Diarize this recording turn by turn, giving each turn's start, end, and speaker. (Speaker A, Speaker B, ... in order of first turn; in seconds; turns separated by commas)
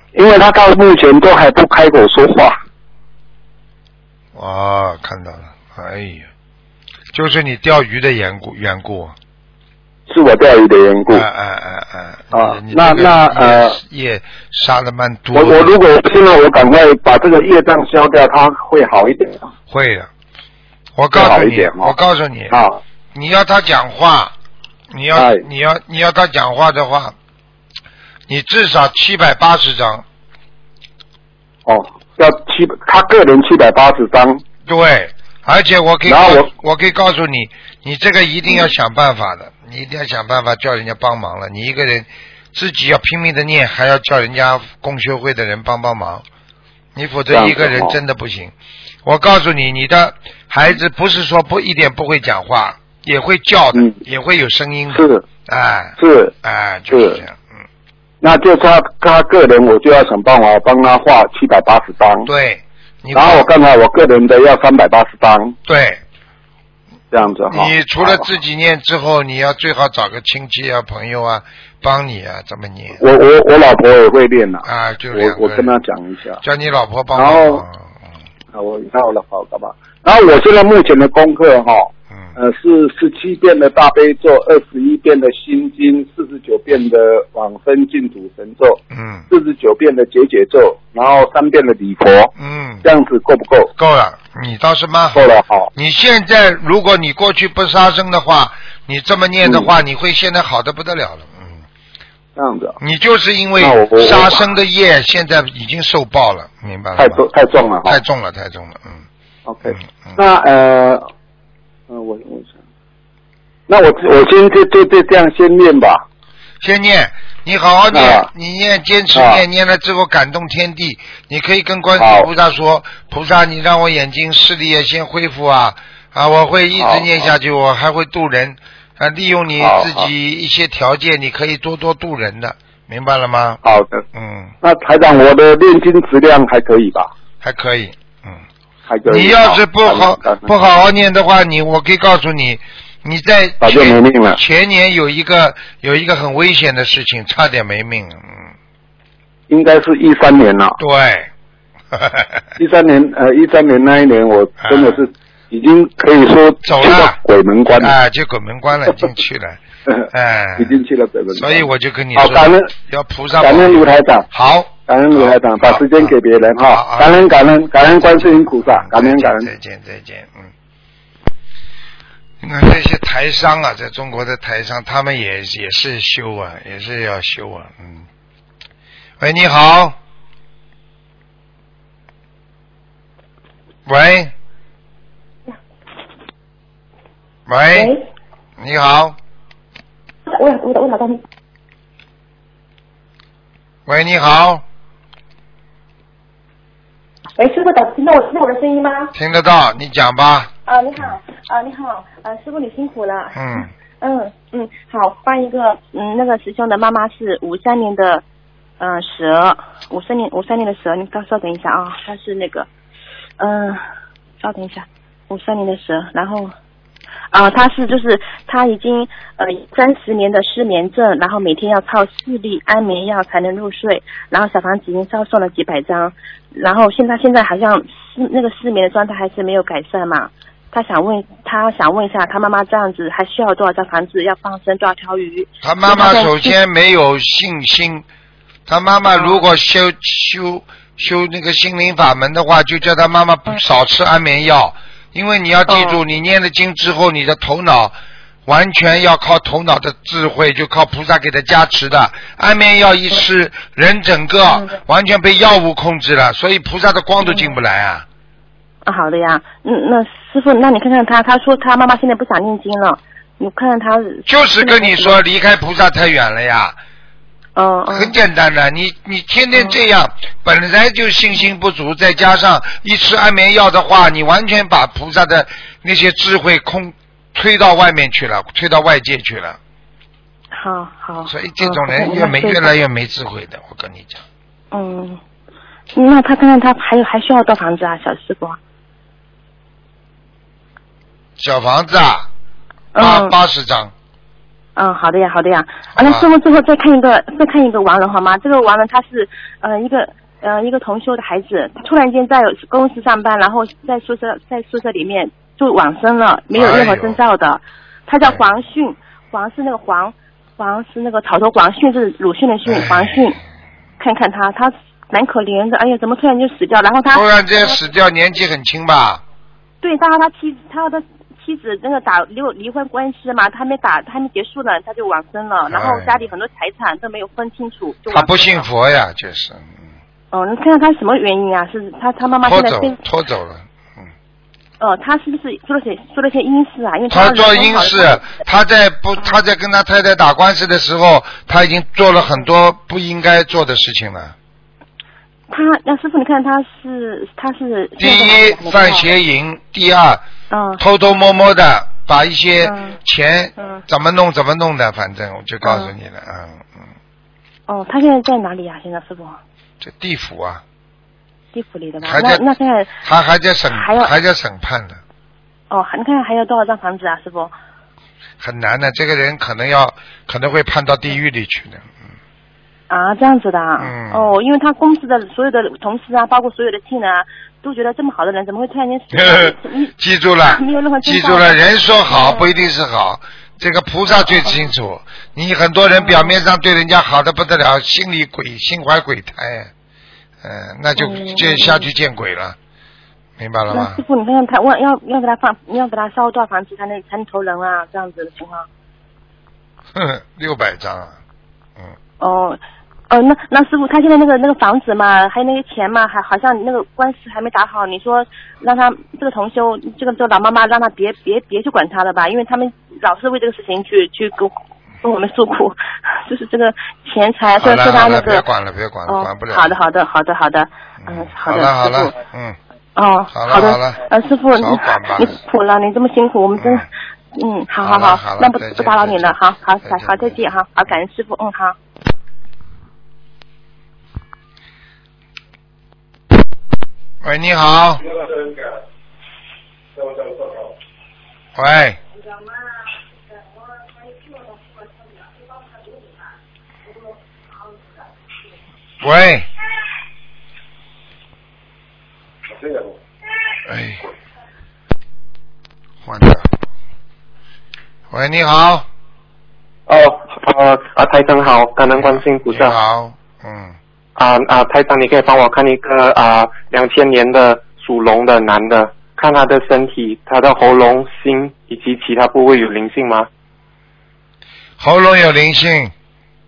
Speaker A: 0.1-2.6, Speaker B: 4.3-6.3, Speaker B: 7.1-9.2, Speaker A: 10.1-11.3, Speaker B: 11.1-15.7, Speaker A: 12.3-13.8, Speaker A: 15.3-19.5, Speaker B: 19.7-20.1, Speaker B: 21.0-22.6, Speaker A: 21.1-21.9, Speaker A: 22.5-22.8, Speaker B: 23.1-24.3, Speaker B: 24.9-27.1, Speaker A: 25.1-25.4, Speaker B: 28.3-30.1, Speaker A: 31.7-34.4, Speaker B: 34.7-46.2, Speaker A: 36.1-36.5, Speaker B: 47.0-48.5, Speaker A: 47.3-48.0, Speaker B: 49.0-57.5, Speaker A: 54.9-55.2, Speaker A: 56.0-56.3, Speaker A: 56.9-57.2, Speaker A: 58.2-62.3, Speaker B: 62.2-63.5, Speaker A: 63.1-65.6, Speaker B: 65.7-66.0, Speaker A: 67.1-68.3, Speaker B: 67.5-73.0, Speaker A: 73.0-76.4, Speaker B: 74.6-75.8, Speaker B: 76.4-77.9, Speaker A: 77.1-77.6, Speaker A: 78.5-92.3, Speaker B: 88.9-89.3, Speaker B: 92.4-92.9, Speaker A: 92.8-93.7, Speaker B: 93.8-101.6, Speaker A: 95.2-95.7, Speaker A: 99.4-99.7, Speaker A: 102.4-102.8, Speaker B: 102.8-107.3, Speaker A: 103.6-104.5, Speaker A: 107.0-108.0, Speaker B: 107.8-109.0, Speaker A: 109.5-111.0, Speaker B: 109.7-110.2, Speaker A: 111.9-112.6, Speaker A: 113.7-116.0, Speaker B: 116.6-133.6, Speaker A: 117.9-118.3, Speaker A: 119.2-119.4, Speaker A: 122.0-122.3, Speaker A: 126.8-127.3, Speaker A: 129.6-130.1, Speaker A: 133.6-134.0, Speaker B: 134.1-134.5, Speaker A: 134.6-137.1, Speaker B: 137.4-138.4, Speaker A: 138.9-140.5, Speaker B: 139.1-148.4, Speaker A: 143.6-144.4, Speaker A: 149.5-150.8, Speaker B: 150.8-151.3, Speaker B: 151.9-152.5, Speaker A: 152.6-157.9, Speaker B: 154.6-155.1, Speaker B: 156.6-157.2, Speaker B: 157.8-159.6, Speaker B: 160.1-160.8, Speaker A: 160.6-162.7, Speaker B: 161.3-167.3, Speaker A: 163.4-164.3, Speaker A: 164.9-169.5, Speaker B: 168.2-170.5, Speaker B: 172.4-178.1, Speaker B: 179.2-180.0, Speaker B: 183.9-184.3, Speaker B: 187.5-188.0, Speaker C: 187.7-188.0, Speaker B: 188.6-189.2, Speaker C: 190.3-191.2, Speaker B: 193.9-194.6, Speaker C: 197.4-199.1, Speaker B: 199.2-201.1, Speaker C: 200.7-208.2, Speaker B: 203.3-203.7, Speaker C: 208.8-212.7, Speaker C: 213.4-213.8, Speaker C: 214.4-216.5, Speaker C: 217.3-236.6, Speaker B: 235.6-238.1, Speaker B: 238.7-247.9, Speaker C: 239.1-239.4, Speaker C: 245.7-246.0, Speaker B: 248.5-258.1, Speaker C: 257.2-257.5, Speaker C: 258.9-265.2, Speaker B: 264.3-266.8, Speaker C: 267.6-268.1, Speaker B: 267.9-279.6, Speaker C: 280.5-282.7, Speaker B: 281.3-284.2, Speaker C: 284.7-285.2, Speaker C: 285.9-288.6, Speaker B: 291.4-292.3, Speaker C: 292.9-293.4, Speaker B: 293.0-293.9, Speaker C: 294.8-313.4, Speaker B: 295.9-296.3, Speaker B: 306.5-307.2, Speaker B: 312.7-313.2, Speaker C: 314.0-317.8, Speaker B: 317.1-319.2, Speaker C: 319.8-328.7, Speaker B: 325.7-326.2, Speaker B: 328.1-329.8, Speaker C: 330.3-333.0, Speaker B: 332.4-334.1, Speaker C: 334.8-338.3, Speaker B: 337.1-344.4, Speaker C: 345.5-349.1, Speaker B: 348.0-350.2, Speaker C: 350.5-350.8, Speaker B: 350.8-356.9, Speaker C: 352.6-352.9, Speaker C: 355.6-355.9, Speaker C: 357.7-359.4, Speaker B: 359.8-360.6, Speaker C: 361.5-362.9, Speaker B: 362.0-362.4, Speaker B: 363.0-365.0, Speaker C: 363.7-364.1, Speaker C: 365.7-367.5, Speaker B: 368.4-372.0, Speaker C: 372.9-382.5, Speaker B: 373.8-374.3, Speaker B: 379.1-389.7, Speaker C: 385.9-386.4, Speaker B: 390.4-392.6, Speaker C: 391.0-391.9, Speaker B: 393.4-394.0, Speaker C: 393.7-398.7, Speaker B: 399.9-401.2, Speaker C: 402.2-418.5, Speaker B: 417.6-419.8, Speaker C: 419.1-422.1, Speaker B: 421.0-422.6, Speaker C: 423.0-431.8, Speaker B: 423.3-424.0, Speaker B: 424.6-425.4, Speaker B: 426.6-426.9, Speaker B: 427.8-430.4, Speaker B: 437.2-438.2, Speaker B: 441.6-442.0, Speaker B: 449.0-449.5, Speaker B: 453.6-454.0, Speaker B: 456.0-456.5, Speaker B: 458.1-458.9, Speaker D: 459.9-462.8, Speaker B: 462.0-463.8, Speaker D: 464.2-473.3, Speaker B: 474.8-475.9